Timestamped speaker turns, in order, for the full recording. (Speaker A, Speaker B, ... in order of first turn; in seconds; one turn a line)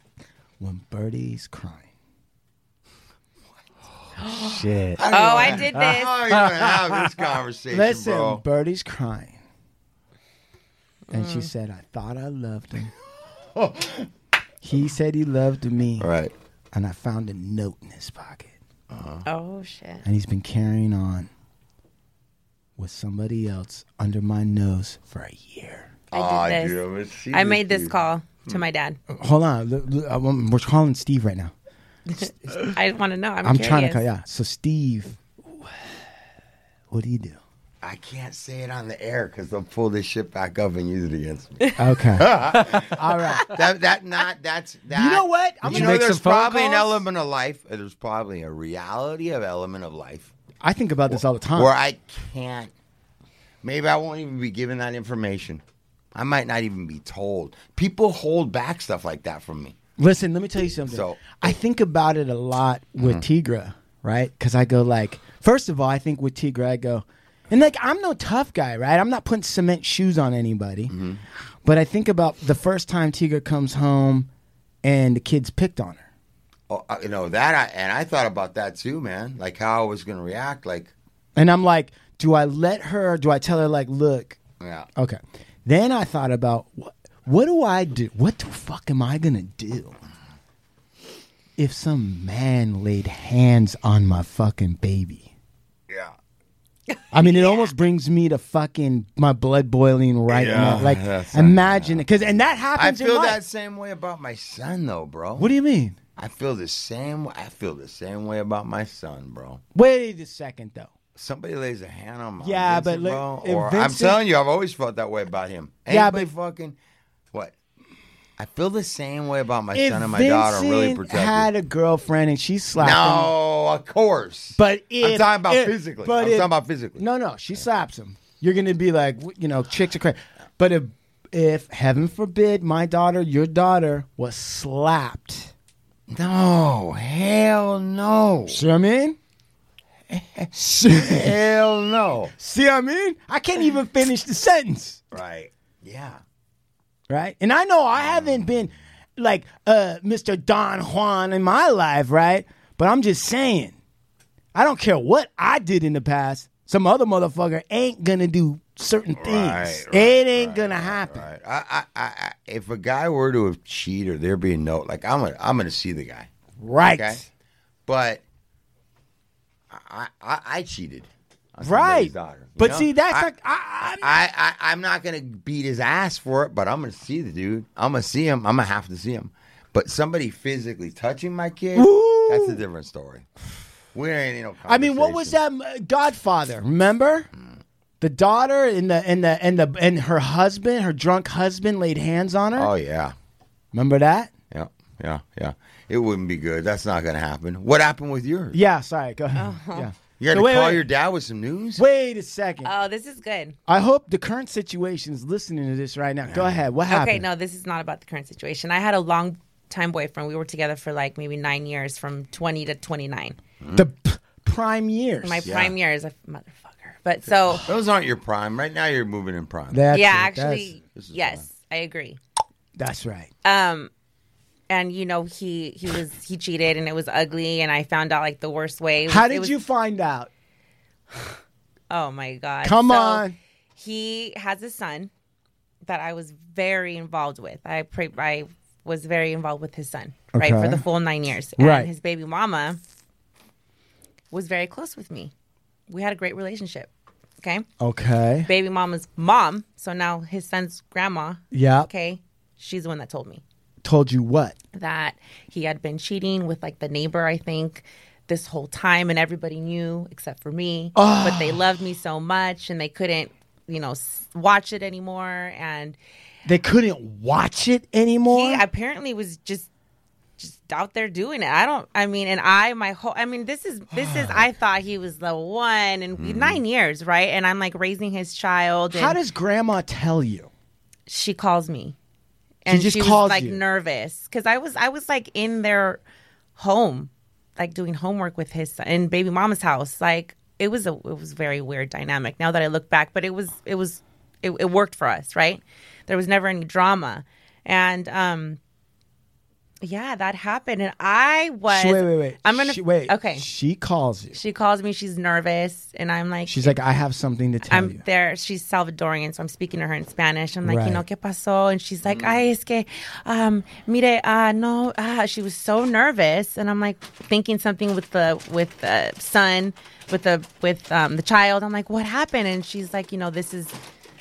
Speaker A: 0.6-1.9
Speaker B: 4.3-5.0
Speaker C: 5.0-8.4
Speaker D: 5.1-6.2
Speaker B: 6.3-6.9
Speaker A: 7.7-9.4
Speaker D: 11.1-11.5
Speaker A: 11.1-12.9
Speaker C: 13.6-14.1
Speaker A: 14.6-16.1
Speaker C: 16.0-16.3
Speaker A: 16.7-18.6
Speaker C: 18.9-19.2
Speaker D: 19.2-20.1
Speaker A: 20.1-21.3
Speaker A: 22.8-25.9
Speaker C: 26.1-28.0
Speaker D: 26.1-26.8
Speaker D: 27.3-29.0
Speaker A: 29.1-31.5
Speaker D: 32.1-34.0
Speaker A: 33.4-35.2
Speaker A: 36.9-37.4
Speaker C: 37.8-50.3
Speaker A: 41.8-43.5
Speaker A: 44.9-47.0
Speaker B: 45.6-46.7
Speaker A: 50.6-51.7
Speaker C: 51.1-52.7
Speaker C: 53.6-55.6
Speaker C: 56.1-59.8
Speaker A: 60.0-70.9
Speaker C: 60.9-61.4
Speaker C: 63.0-63.3
Speaker C: 70.9-71.2
Speaker A: 71.7-74.3
Speaker A: 74.8-76.0
Speaker C: 76.7-80.9
Speaker A: 81.4-84.4
Speaker C: 84.6-84.9
Speaker A: 85.0-90.0
Speaker A: 91.6-95.3
Speaker A: 97.1-103.4
Speaker D: 97.2-97.7
Speaker C: 100.3-102.1
Speaker C: 102.8-105.5
Speaker A: 105.4-106.0
Speaker C: 106.2-109.6
Speaker A: 109.8-110.9
Speaker C: 111.2-116.8
Speaker A: 112.4-114.2
Speaker A: 115.9-116.3
Speaker C: 118.4-121.5
Speaker A: 119.7-123.3
Speaker C: 122.8-127.0
Speaker A: 124.6-135.5
Speaker C: 136.1-138.6
Speaker A: 138.5-139.2
Speaker A: 140.5-141.3
Speaker C: 140.9-142.3
Speaker A: 142.4-145.1
Speaker C: 145.1-146.2
Speaker A: 147.1-153.8
Speaker A: 154.5-161.3
Speaker C: 159.2-166.3
Speaker A: 166.6-167.3
Speaker C: 166.8-167.2
Speaker C: 167.9-168.2
Speaker C: 169.7-183.3
Speaker A: 171.6-174.2
Speaker A: 181.8-182.6
Speaker C: 183.9-185.4
Speaker A: 184.7-187.3
Speaker A: 188.0-192.7
Speaker C: 192.6-193.2
Speaker A: 193.7-194.3
Speaker C: 194.5-198.6
Speaker A: 198.5-200.9
Speaker D: 199.4-199.9
Speaker C: 200.2-201.8
Speaker A: 201.8-202.7
Speaker D: 202.6-203.6
Speaker A: 203.7-207.2
Speaker C: 206.3-206.6
Speaker D: 206.9-213.4
Speaker C: 213.6-213.9
Speaker A: 213.8-215.5
Speaker D: 215.2-217.7
Speaker C: 215.5-215.7
Speaker C: 217.5-219.8
Speaker A: 219.7-220.7
Speaker D: 219.9-222.2
Speaker C: 220.9-221.5
Speaker A: 222.8-223.3
Speaker D: 223.4-223.9
Speaker D: 224.7-229.6
Speaker A: 229.1-230.3
Speaker D: 231.9-233.2
Speaker A: 232.6-233.4
Speaker D: 233.8-235.1
Speaker D: 235.9-242.8
Speaker A: 240.3-240.8
Speaker A: 241.6-241.9
Speaker D: 244.3-245.3
Speaker D: 245.9-246.9
Speaker D: 247.4-247.7
Speaker A: 247.8-248.5
Speaker D: 248.5-253.4
Speaker A: 251.5-251.9
Speaker A: 253.8-254.6
Speaker D: 254.7-266.0
Speaker A: 260.9-261.6
Speaker A: 266.5-268.6
Speaker D: 268.3-269.7
Speaker D: 270.4-279.2
Speaker C: 273.9-274.4
Speaker C: 276.2-276.6
Speaker A: 278.9-280.5
Speaker D: 281.1-281.9
Speaker D: 282.6-286.0
Speaker A: 282.7-283.6
Speaker D: 286.6-298.6
Speaker D: 299.8-303.4
Speaker A: 301.7-304.4
Speaker D: 304.3-306.8
Speaker A: 306.5-308.0
Speaker D: 307.6-323.8
Speaker A: 310.6-311.0
Speaker C: 312.1-312.4